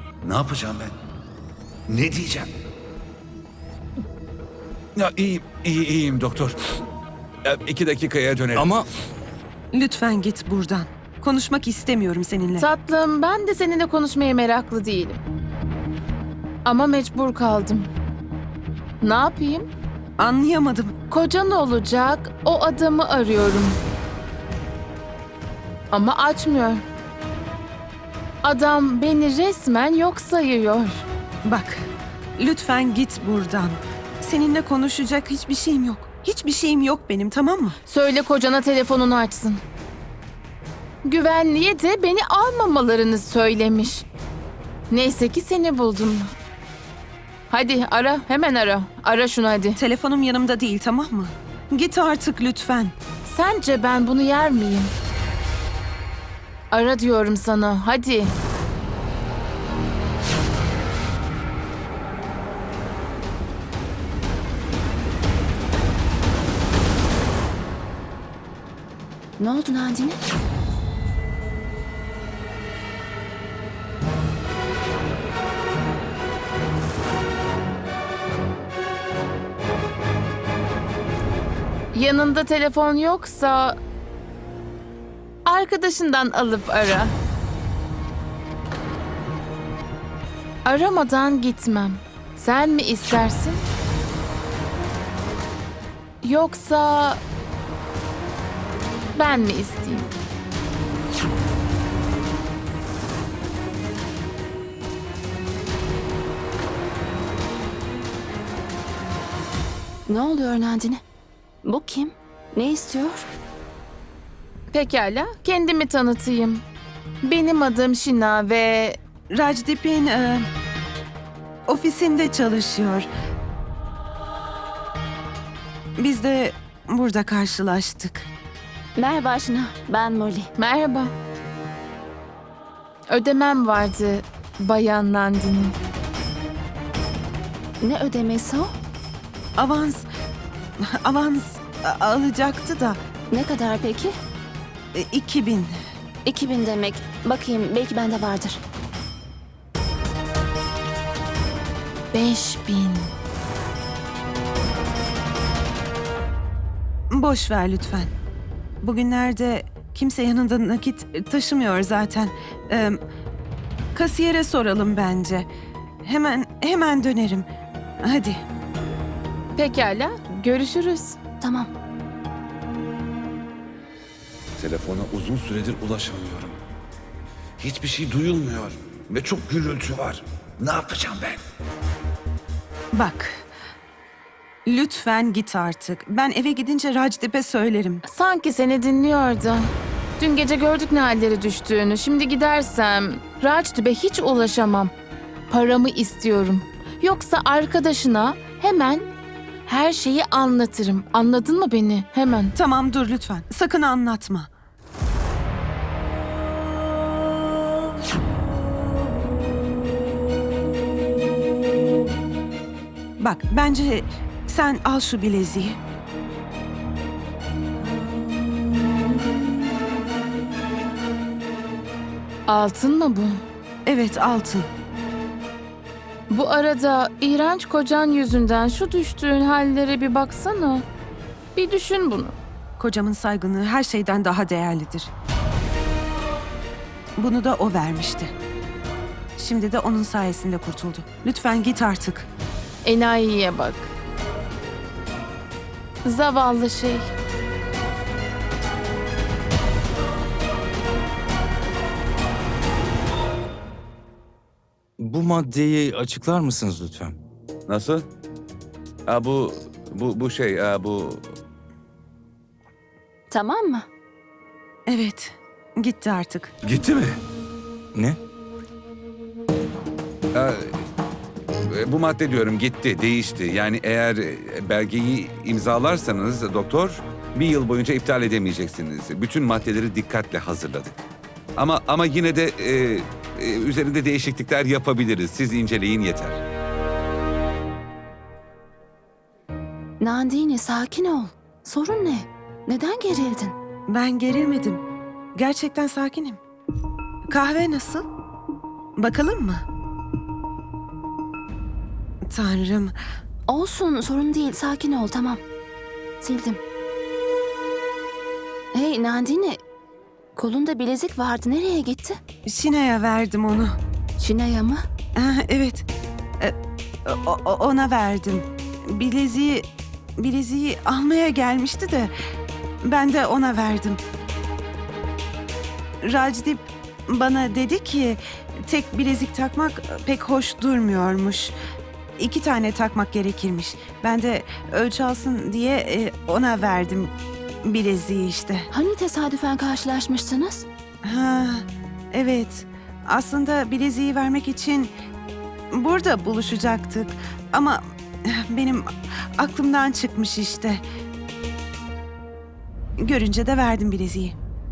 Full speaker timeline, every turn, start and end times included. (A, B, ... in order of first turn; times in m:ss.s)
0:00.2-0:01.0 A
0:01.9-0:02.5 A
0:05.0-0:06.6 A
0:07.4-0:08.8 A
0:09.7-0:12.7 B
0:12.6-0:15.2 C
0:16.7-0:17.9 C
0:19.0-0:19.7 C
0:20.2-0:20.9 B
0:21.1-0:23.8 C
0:25.9-0:26.8 C
0:28.4-0:31.0 C
0:31.4-0:31.8 B
0:32.4-0:37.8 B
0:37.9-0:39.6 C
0:41.0-0:44.1 C
0:44.9-0:46.3 C
0:47.5-0:49.8 C
0:49.8-0:52.9 B
0:53.2-0:54.9 C
0:56.7-0:58.3 C
1:09.4-1:10.2 D
1:21.9-1:23.8 C
1:25.5-1:27.1 C
1:30.6-1:33.7 C
1:36.2-1:37.2 C
1:39.2-1:40.1 C
1:50.1-1:51.0 D
1:51.6-1:53.3 D
1:54.7-1:56.6 C
1:57.2-1:59.0 C
1:59.3-2:00.4 B
2:01.7-2:03.1 B
2:06.0-2:08.3 B
2:09.0-2:10.5 D
2:10.6-2:11.1 C
2:13.1-2:15.8 C
2:17.8-2:18.7 D
2:19.6-2:20.1 B
2:20.8-2:23.0 B
2:23.3-2:24.2 D
2:24.9-2:25.7 B
2:26.2-2:28.6 D
2:32.1-2:33.1 C
2:37.1-2:38.1 B
2:38.8-2:43.0 B
2:43.9-2:45.5 B
2:46.0-2:47.4 B
2:48.0-2:48.4 B
2:49.6-2:51.2 C
2:51.4-2:51.7 D
2:54.6-2:56.6 A
2:57.6-3:01.4 A
3:02.9-3:03.5 B
3:04.7-3:08.0 B
3:08.0-3:09.7 C
3:10.2-3:14.9 C
3:15.5-3:19.1 C
3:19.7-3:22.5 C
3:22.6-3:24.5 B
3:33.2-3:35.8 B
3:42.5-3:43.4 C
3:43.8-3:44.7 B
3:46.3-3:50.8 C
3:51.6-3:52.3 C
3:52.8-3:55.1 B
3:57.2-3:58.3 B
3:59.4-4:02.3 B
4:02.8-4:03.9 C
4:06.0-4:07.1 C
4:15.0-4:17.2 E
4:17.7-4:18.1 A
4:19.1-4:21.2 A
4:23.3-4:23.9 D
4:24.9-4:26.5 B
4:26.6-4:27.2 A
4:30.3-4:30.8 A
4:31.7-4:41.0 A
4:41.6-4:46.4 A
4:50.0-4:53.6 D
4:53.9-4:54.8 B
4:55.3-4:56.4 B
4:57.3-4:58.0 B
4:59.0-4:59.6 B
5:02.3-5:02.9 B
5:03.5-5:05.4 D
5:06.2-5:06.6 D
5:08.7-5:09.6 D
5:10.4-5:12.2 D
5:12.4-5:13.8 B
5:14.2-5:14.8 D
5:15.2-5:15.8 B
5:17.1-5:19.7 B
5:20.2-5:22.1 B
5:22.8-5:24.0 B
5:26.0-5:31.5 B
5:32.2-5:38.7 B
5:38.7-5:40.6 D
5:41.0-5:44.9 B
5:45.7-5:50.8 B
5:53.0-5:54.4 B